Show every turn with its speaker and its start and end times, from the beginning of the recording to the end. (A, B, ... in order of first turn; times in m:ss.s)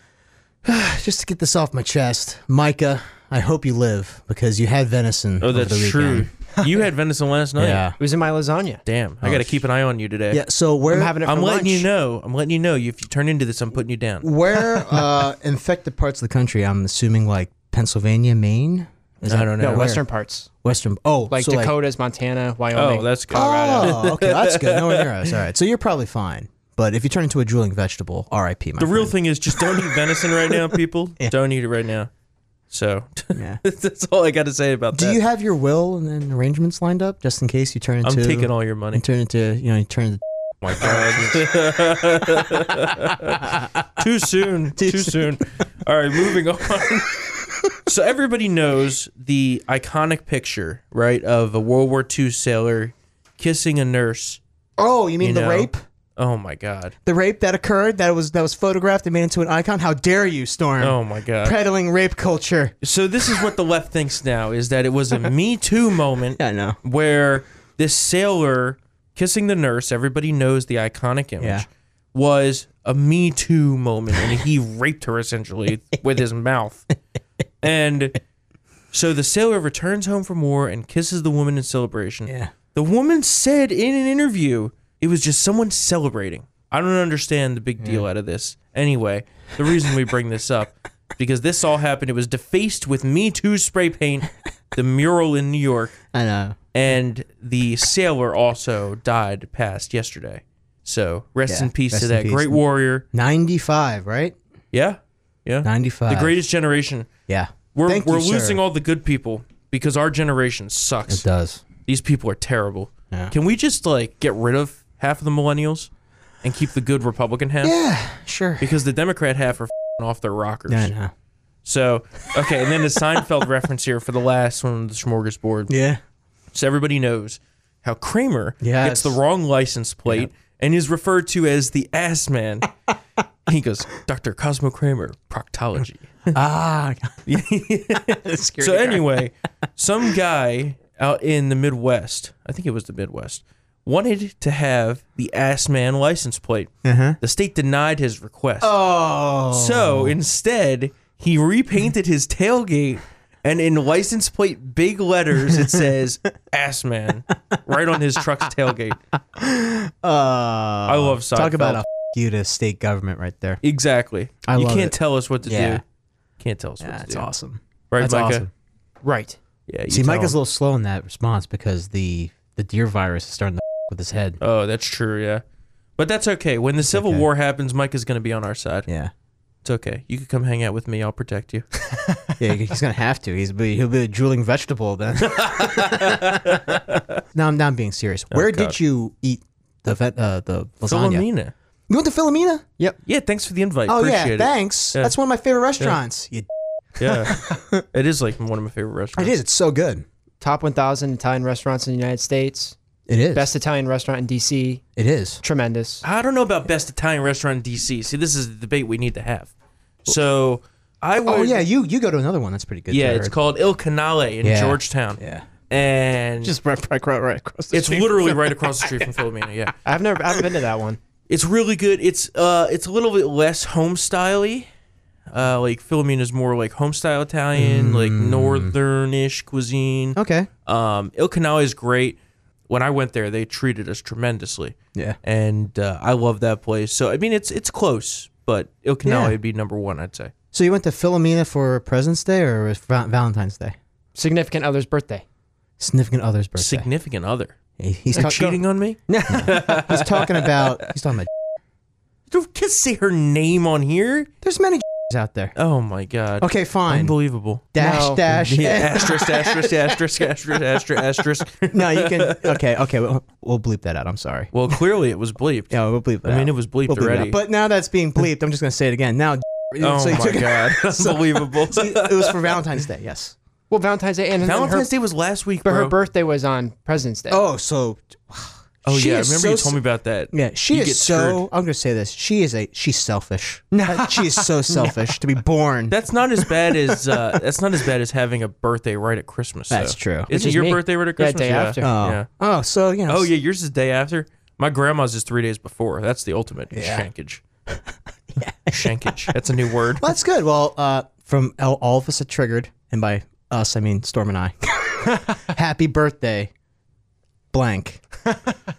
0:00.6-0:06.5 A
0:05.4-0:07.9 B
0:07.6-0:08.0 A
0:08.0-0:08.8 C
0:08.8-0:10.4 B
0:09.2-0:09.6 A
0:10.3-0:11.2 A
0:10.9-0:11.9 C
0:11.2-0:14.9 B
0:14.2-0:20.0 A
0:19.3-0:19.9 B
0:19.6-0:20.5 C
0:20.6-0:21.7 A
0:21.3-0:23.6 C
0:22.7-0:25.3 B
0:23.3-0:31.3 A
0:28.8-0:32.1 B
0:32.7-0:35.2 B
0:33.3-0:33.6 A
0:34.9-0:41.4 A
0:38.0-0:39.0 B
0:40.6-0:47.2 B
0:43.3-0:43.8 A
0:44.8-0:45.4 A
0:47.8-0:54.4 B
0:54.8-0:55.8 A
0:55.2-0:56.9 B
0:57.0-1:03.5 A
1:00.8-1:01.6 B
1:02.8-1:16.9 B
1:06.4-1:06.8 A
1:11.4-1:11.7 A
1:17.6-1:18.2 B
1:18.9-1:36.0 B
1:22.3-1:22.5 A
1:27.8-1:28.1 A
1:36.1-1:36.6 A
1:36.7-1:43.0 B
1:41.5-1:42.6 A
1:43.1-1:44.4 A
1:44.7-1:47.1 B
1:45.6-1:46.4 A
1:47.3-1:48.6 A
1:47.7-1:51.2 B
1:51.1-1:51.6 A
1:51.8-1:55.9 B
1:56.4-1:57.8 B
1:57.6-1:58.7 A
1:58.6-2:00.9 B
2:00.7-2:01.1 A
2:01.6-2:05.7 B
2:02.5-2:03.2 A
2:05.7-2:06.0 A
2:06.5-2:12.7 B
2:08.6-2:09.2 A
2:13.5-2:16.3 B
2:16.3-2:17.2 A
2:17.3-2:28.7 B
2:18.1-2:19.2 A
2:26.8-2:27.2 A
2:28.6-2:30.2 A
2:29.5-2:39.0 B
2:35.5-2:35.8 A
2:39.4-2:43.6 A
2:40.9-2:41.8 B
2:43.6-2:45.8 B
2:44.4-2:45.8 A
2:46.4-2:47.3 B
2:46.8-2:48.5 A
2:47.9-2:48.5 B
2:49.0-2:49.4 C
2:49.7-2:50.4 B
2:49.9-2:54.4 A
2:54.4-2:55.4 B
2:56.0-2:58.9 B
2:56.9-2:57.3 A
2:59.6-3:02.0 B
3:02.4-3:06.8 A
3:05.2-3:07.2 B
3:07.3-3:11.3 A
3:08.3-3:08.8 B
3:10.9-3:11.5 B
3:11.9-3:13.0 A
3:13.1-3:15.2 B
3:13.9-3:16.5 A
3:17.0-3:19.3 B
3:17.1-3:17.8 A
3:19.2-3:20.0 A
3:20.4-3:22.8 C
3:23.1-3:23.5 A
3:23.3-3:24.8 C
3:25.0-3:25.4 A
3:25.4-3:26.0 C
3:26.0-3:29.5 B
3:30.0-3:31.7 B
3:31.2-3:33.4 A
3:32.9-3:36.5 B
3:34.4-3:35.5 A
3:36.4-3:39.3 A
3:37.7-3:39.8 B
3:39.8-3:41.0 C
3:41.3-3:44.7 B
3:45.3-3:52.2 B
3:47.6-3:48.7 A
3:50.2-3:50.5 A
3:52.7-4:00.3 B
3:59.0-3:59.4 A
4:00.5-4:03.8 A
4:04.2-4:05.2 C
4:05.8-4:06.9 A
4:06.6-4:07.6 B
4:07.8-4:11.3 A
4:08.1-4:10.9 B
4:12.3-4:14.3 B
4:14.4-4:15.5 A
4:15.6-4:17.7 B
4:16.4-4:17.2 A
4:17.7-4:20.0 A
4:17.8-4:18.3 C
4:18.3-4:22.6 B
4:21.7-4:24.8 A
4:24.5-4:27.4 B
4:25.7-4:33.4 A
4:29.8-4:32.6 B
4:33.7-4:34.9 C
4:34.4-4:35.9 B
4:35.6-4:37.4 C
4:37.3-4:39.8 A
4:38.8-4:41.5 B
4:40.3-4:46.0 A
4:43.7-4:45.1 C
4:45.9-4:52.3 B
4:46.7-4:47.4 A
4:49.7-4:50.3 A
4:50.3-4:51.9 C
4:51.8-4:53.3 A
4:53.1-4:57.4 B
4:56.7-4:57.1 A
4:58.4-4:59.3 A
4:58.7-5:00.1 B
5:00.0-5:06.5 A
5:07.5-5:08.0 A